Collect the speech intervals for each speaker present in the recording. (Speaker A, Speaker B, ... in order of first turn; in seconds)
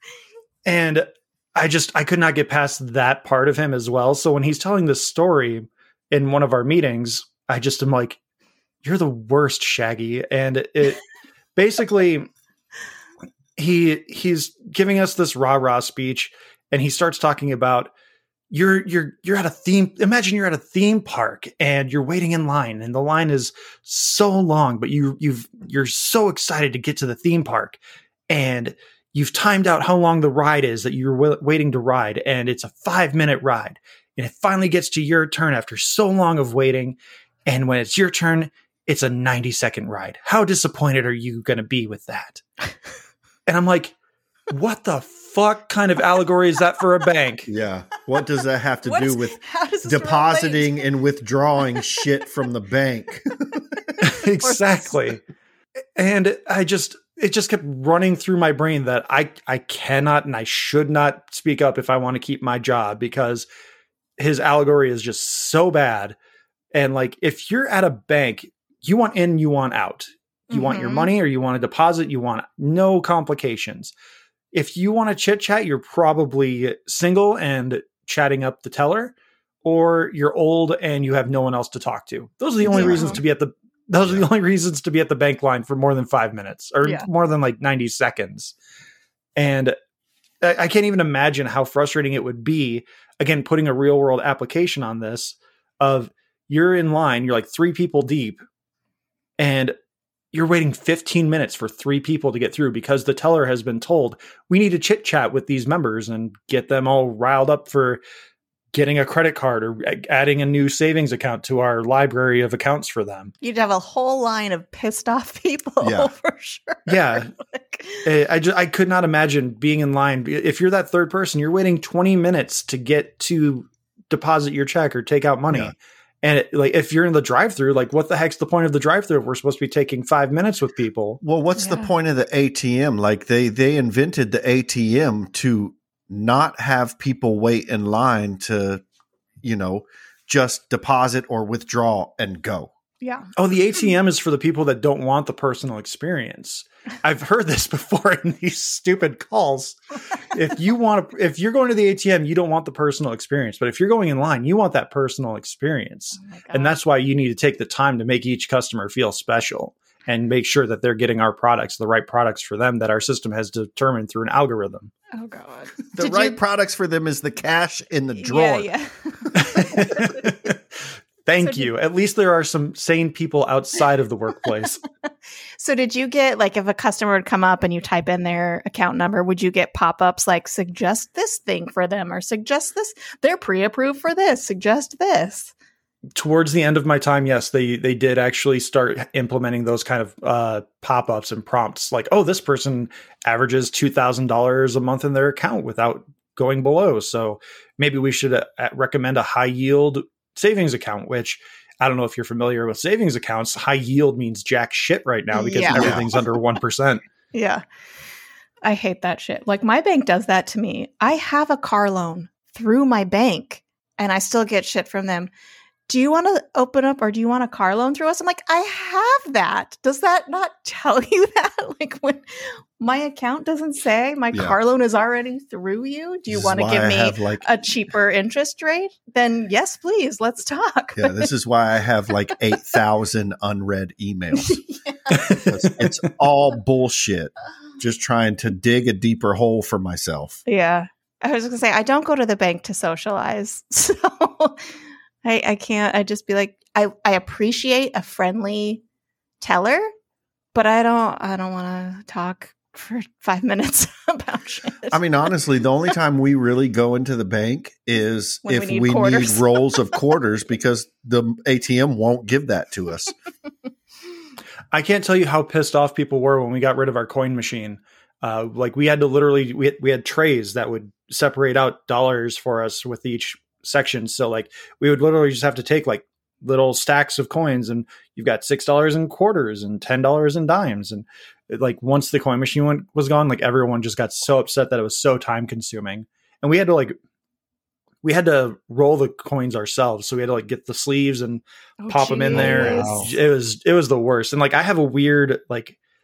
Speaker A: 0.6-8.2, 8.8-11.0, 11.6-12.3, 13.6-17.9, 18.5-27.8, 28.3-42.4, 43.5-43.9, 44.5-47.5, 54.0-55.2, 56.0-63.5, 64.2-66.2, 66.7-73.9, 74.5-88.5, 89.3-89.8, 90.4-98.4, 99.4-99.7, 100.3-108.0, 108.7-113.3, 116.9-117.3, 118.0-131.2, 143.3-164.9, 169.3-174.8, 186.2-207.0, 235.1-235.9, 264.7-286.9, 288.0-295.8
Speaker B: 47.5-53.9, 82.7-83.2, 84.0-84.3, 115.8-116.1, 131.2-138.8, 139.4-142.7, 165.9-168.7, 205.7-206.1, 226.3-227.4, 230.9-234.6, 235.3-240.4, 254.9-263.1, 292.3-293.1
Speaker C: 48.8-50.8, 54.4-54.9, 70.5-71.1, 82.6-83.2, 113.4-118.1, 131.6-131.9, 143.0-143.3, 156.2-156.7, 165.1-166.4, 168.2-170.2, 171.4-171.7, 175.6-185.5, 205.3-205.9, 207.3-207.6, 208.6-215.3, 215.9-231.3, 234.4-235.3, 240.4-244.6, 245.2-248.8, 249.4-249.9, 250.5-255.0, 258.4-259.6, 291.8-293.1